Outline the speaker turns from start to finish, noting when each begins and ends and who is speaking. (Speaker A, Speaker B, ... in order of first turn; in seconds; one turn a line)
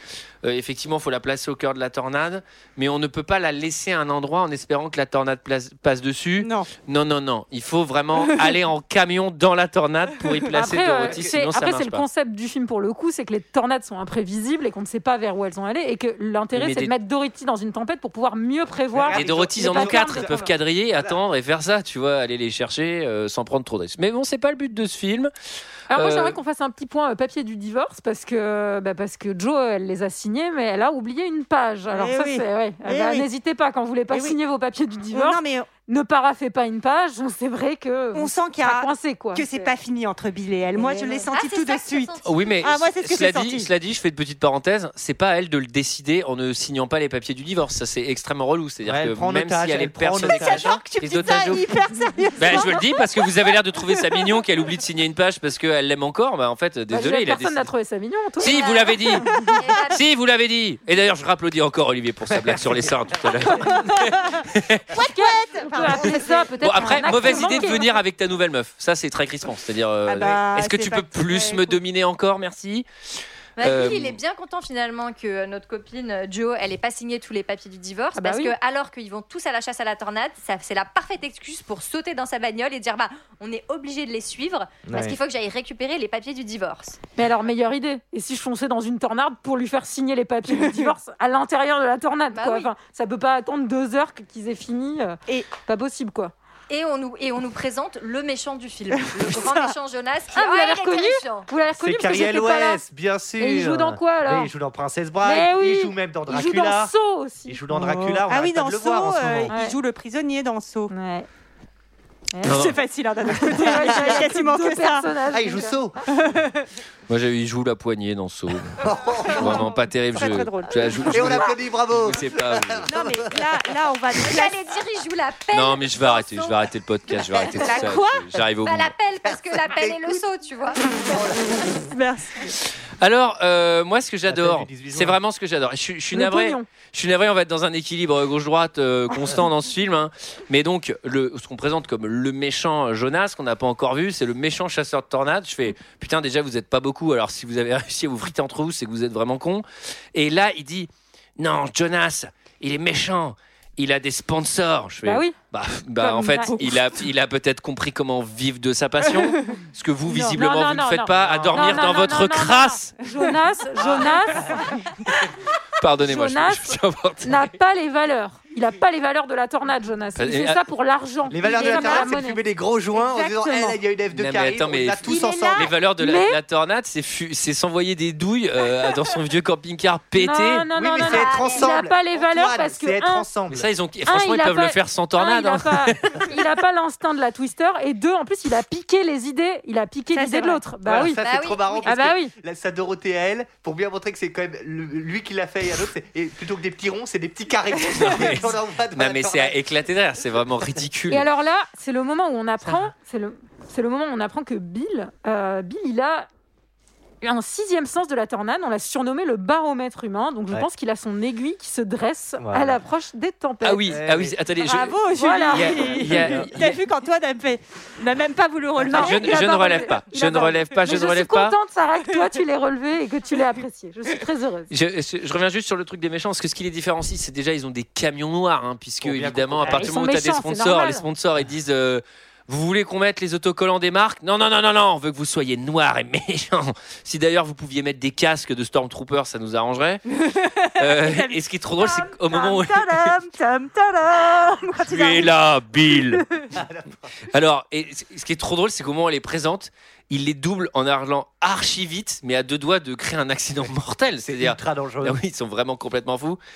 Speaker A: 0.4-12.1
Speaker B: 6.4-6.7
Speaker C: 10.5-20.4
Speaker D: 11.0-11.3
Speaker A: 16.5-16.9
Speaker D: 18.9-21.2
Speaker A: 19.1-25.3
Speaker C: 25.9-39.5
Speaker A: 25.9-26.4
Speaker B: 31.9-33.3
Speaker B: 34.1-34.4
Speaker B: 35.1-35.7
Speaker B: 38.1-43.7
Speaker E: 40.8-42.6
Speaker A: 42.2-51.6
Speaker D: 48.8-50.8
Speaker B: 50.2-54.4
Speaker A: 52.4-57.7
Speaker C: 56.9-58.7
Speaker A: 58.4-59.3
Speaker E: 58.4-60.0
Speaker A: 59.9-64.9
Speaker D: 62.3-63.9
Speaker B: 63.5-64.4
Speaker B: 64.9-67.9
Speaker C: 65.0-67.9
Speaker A: 66.6-72.9
Speaker B: 70.1-71.8
Speaker E: 73.6-87.0
Speaker A: 73.6-74.2
Speaker C: 78.2-78.5
Speaker D: 84.8-85.2
Speaker C: 87.2-96.3
Speaker B: 90.5-90.9
Speaker E: 92.3-92.7
Speaker E: 96.7-101.5
Speaker B: 99.0-99.7
Speaker C: 100.3-102.8
Speaker D: 101.8-106.9
Speaker C: 103.4-104.5
Speaker C: 105.2-107.6
Speaker D: 107.5-109.5
Speaker B: 107.7-110.9
Speaker C: 109.5-109.8
Speaker C: 110.9-111.3
Speaker C: 112.3-112.6
Speaker B: 112.4-115.1
Speaker A: 112.5-112.8
Speaker C: 113.3-115.8
Speaker D: 115.3-116.2
Speaker B: 116.2-116.6
Speaker A: 117.1-118.8
Speaker D: 118.8-119.7
Speaker B: 119.3-121.5
Speaker A: 119.3-122.9
Speaker D: 121.0-123.3
Speaker B: 122.9-124.6
Speaker E: 124.2-126.7
Speaker A: 125.5-128.9
Speaker B: 127.6-128.2
Speaker E: 128.6-131.2
Speaker D: 129.3-130.2
Speaker B: 130.9-132.6
Speaker A: 133.0-162.9
Speaker D: 134.3-135.2
Speaker C: 136.1-136.7
Speaker C: 155.1-155.4
Speaker C: 156.0-156.6
Speaker C: 160.1-164.8
Speaker D: 161.1-162.0
Speaker D: 163.8-164.7
Speaker A: 165.8-167.5
Speaker C: 166.0-172.4
Speaker A: 170.2-170.6
Speaker D: 171.3-175.7
Speaker B: 171.4-172.1
Speaker B: 172.9-173.8
Speaker A: 174.1-180.7
Speaker B: 175.1-175.7
Speaker C: 176.0-176.4
Speaker C: 180.2-183.3
Speaker D: 180.8-183.7
Speaker E: 181.0-181.7
Speaker A: 183.5-186.3
Speaker C: 184.1-191.2
Speaker B: 190.1-190.6
Speaker D: 190.8-199.6
Speaker E: 191.2-191.9
Speaker C: 191.8-192.3
Speaker A: 197.9-201.3
Speaker C: 201.1-206.3
Speaker C: 207.2-214.0
Speaker D: 212.4-212.8
Speaker A: 213.6-215.0
Speaker D: 213.9-214.4
Speaker B: 214.6-219.9
Speaker C: 215.2-215.8
Speaker A: 215.5-216.8
Speaker D: 215.9-216.5
Speaker A: 218.8-221.6
Speaker C: 218.9-224.7
Speaker A: 224.7-240.0
Speaker D: 229.0-229.9
Speaker C: 229.6-231.1
Speaker B: 240.2-246.5
Speaker A: 240.8-243.2
Speaker A: 244.9-246.2
Speaker D: 246.5-247.1
Speaker A: 247.3-256.4
Speaker D: 254.2-255.2